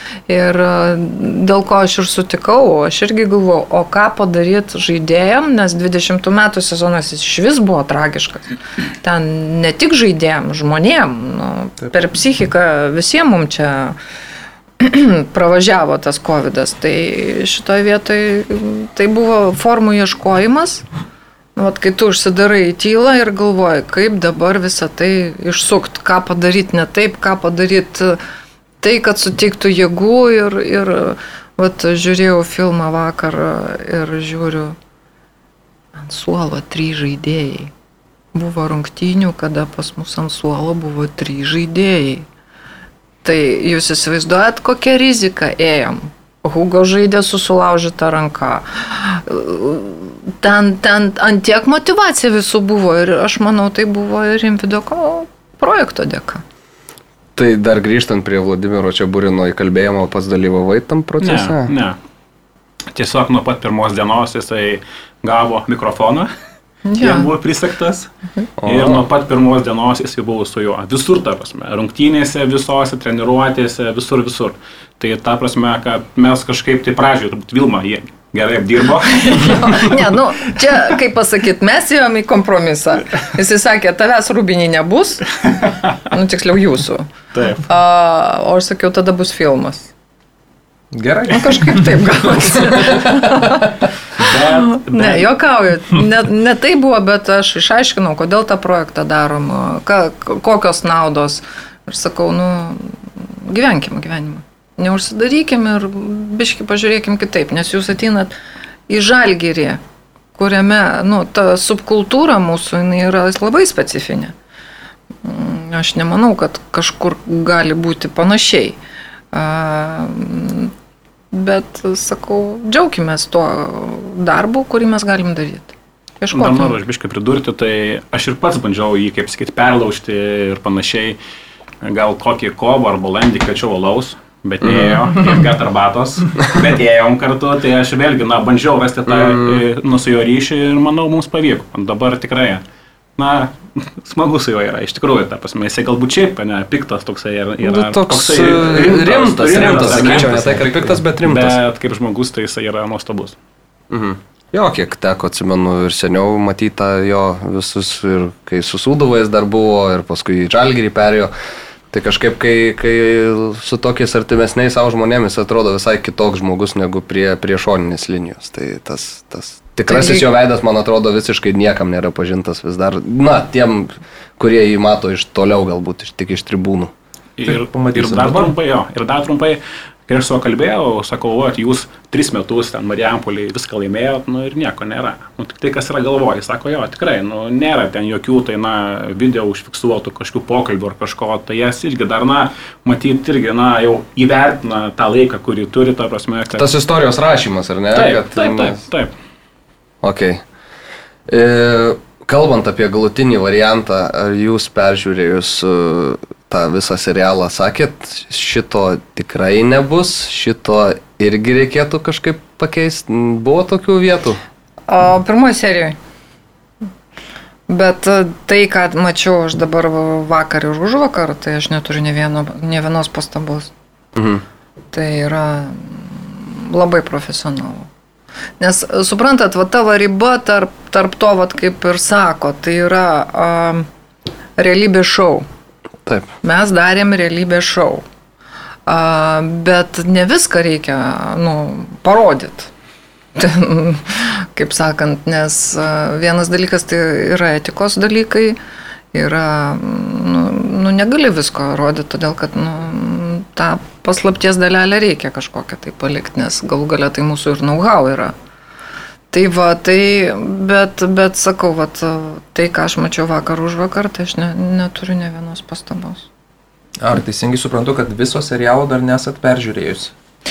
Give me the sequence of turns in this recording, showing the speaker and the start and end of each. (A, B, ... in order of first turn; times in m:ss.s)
0:00.3-0:08.5 A
0:09.0-0:14.0 A
0:14.8-0:20.8 A
0:21.6-0:28.2 A
0:28.8-0:34.8 A
0:36.0-0:37.7 A
0:38.3-0:42.3 A
0:43.2-0:56.4 A
0:57.4-1:01.7 B
1:01.2-1:02.0 C
1:02.9-1:06.3 C
1:06.9-1:07.3 A
1:07.0-1:08.1 C
1:08.6-1:09.0 B
1:08.6-1:20.0 C
1:19.2-1:25.2 A
1:26.1-1:27.1 A
1:27.3-1:27.6 C
1:27.6-1:29.9 A
1:30.9-1:33.6 D
1:31.3-1:33.7 A
1:34.2-1:35.2 C
1:34.7-1:48.3 A
1:48.9-1:49.8 A
1:50.4-1:54.3 A
1:55.2-1:58.8 A
1:59.3-2:00.7 A
2:01.3-2:06.8 A
2:06.3-2:11.2 C
2:11.8-2:22.6 C
2:14.6-2:14.9 B
2:19.1-2:19.6 B
2:23.2-2:30.5 C
2:27.6-2:31.6 B
2:29.5-2:31.0 D
2:31.2-2:33.4 C
2:33.9-2:41.3 B
2:41.9-2:56.9 B
2:49.9-2:50.3 A
2:57.4-3:16.7 C
2:57.4-2:58.5 D
3:16.6-3:18.8 B
3:17.9-3:19.1 C
3:20.0-3:20.4 B
3:21.3-3:34.4 B
3:34.9-3:36.0 A
3:37.7-3:43.7 A
3:44.2-3:44.4 B
3:44.9-3:47.9 A
3:48.6-3:53.8 A
3:54.6-3:55.4 A
3:56.4-3:58.0 A
3:58.8-4:02.7 A
4:03.4-4:08.6 A
4:09.1-4:18.3 A
4:19.3-4:26.3 A
4:27.0-4:30.1 D